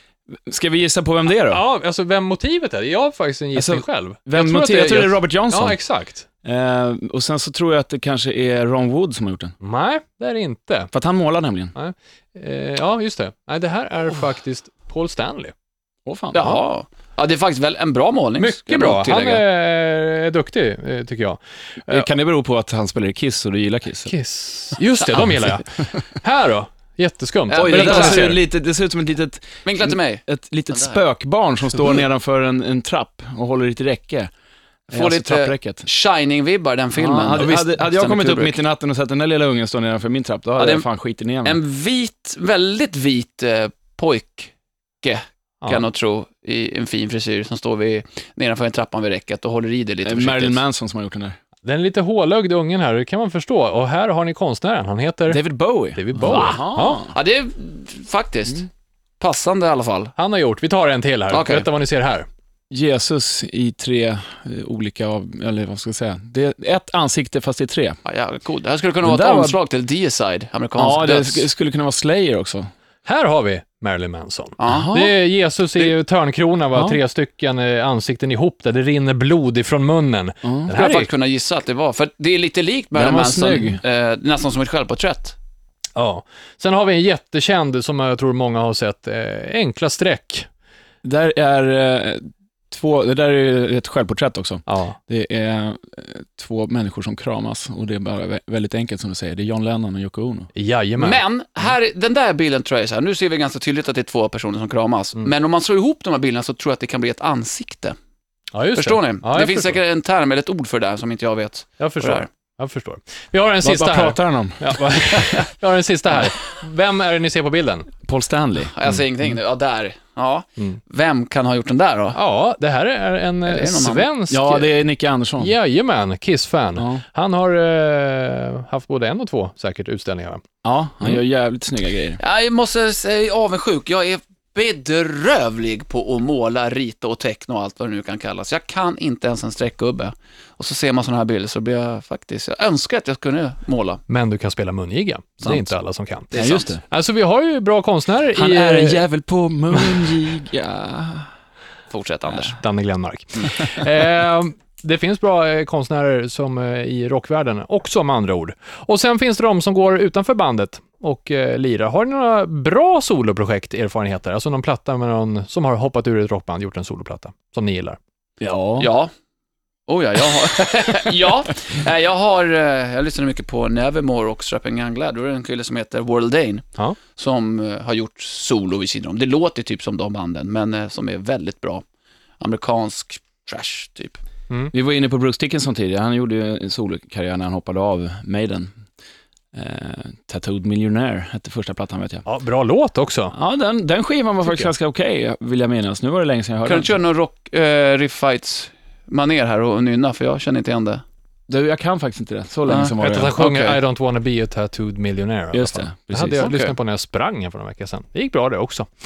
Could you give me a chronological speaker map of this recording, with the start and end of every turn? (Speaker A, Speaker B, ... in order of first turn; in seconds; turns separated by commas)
Speaker A: 0.4-1.6, Speaker B: 1.4-6.2, Speaker A: 3.5-5.8, Speaker A: 6.4-9.5, Speaker B: 9.6-10.9, Speaker A: 10.9-11.7, Speaker B: 11.7-15.5, Speaker A: 16.1-16.6, Speaker C: 16.3-19.4, Speaker B: 18.4-22.1, Speaker A: 21.9-24.1, Speaker B: 24.1-28.4, Speaker C: 27.5-28.4, Speaker A: 27.6-34.3, Speaker C: 29.6-31.0, Speaker A: 34.9-35.8, Speaker C: 34.9-38.6, Speaker A: 37.0-41.6, Speaker C: 40.6-40.9, Speaker C: 41.4-44.5, Speaker C: 45.0-50.6, Speaker A: 50.0-51.4, Speaker B: 51.6-55.4, Speaker A: 55.3-57.1, Speaker B: 55.9-57.0, Speaker C: 56.2-58.7, Speaker C: 59.2-60.1, Speaker B: 60.1-62.3, Speaker C: 61.3-61.6, Speaker A: 62.7-68.0, Speaker C: 68.0-71.5, Speaker A: 69.0-69.6, Speaker A: 70.8-72.7, Speaker B: 73.0-81.1, Speaker C: 74.6-75.0, Speaker A: 74.7-75.1, Speaker A: 80.4-80.7, Speaker C: 80.7-85.3, Speaker A: 82.9-83.8, Speaker B: 86.0-90.5, Speaker A: 91.0-100.5, Speaker B: 94.7-95.0, Speaker B: 100.5-101.2, Speaker C: 101.0-108.0, Speaker B: 108.5-109.8, Speaker C: 108.7-112.3, Speaker B: 111.8-117.9, Speaker A: 113.6-114.8, Speaker A: 118.0-118.7, Speaker C: 118.7-122.2, Speaker B: 122.1-124.7, Speaker C: 123.5-124.1, Speaker A: 124.3-125.5, Speaker B: 125.4-130.4, Speaker A: 126.8-127.0, Speaker A: 130.6-132.2, Speaker C: 132.2-144.0, Speaker B: 144.1-146.3, Speaker C: 145.4-145.7, Speaker C: 146.3-146.7, Speaker A: 146.3-146.8, Speaker B: 146.8-149.0, Speaker A: 148.3-151.3, Speaker C: 151.9-152.6, Speaker B: 152.4-168.0, Speaker A: 168.4-168.9, Speaker C: 168.8-169.1, Speaker C: 169.9-181.8, Speaker C: 182.4-184.2, Speaker A: 184.7-188.7, Speaker A: 189.5-192.2, Speaker B: 192.2-193.3, Speaker A: 193.3-196.9, Speaker B: 194.4-194.7, Speaker C: 196.6-201.0, Speaker A: 201.5-203.4, Speaker C: 202.7-203.8, Speaker B: 203.0-208.9, Speaker A: 205.5-206.5, Speaker C: 206.4-206.7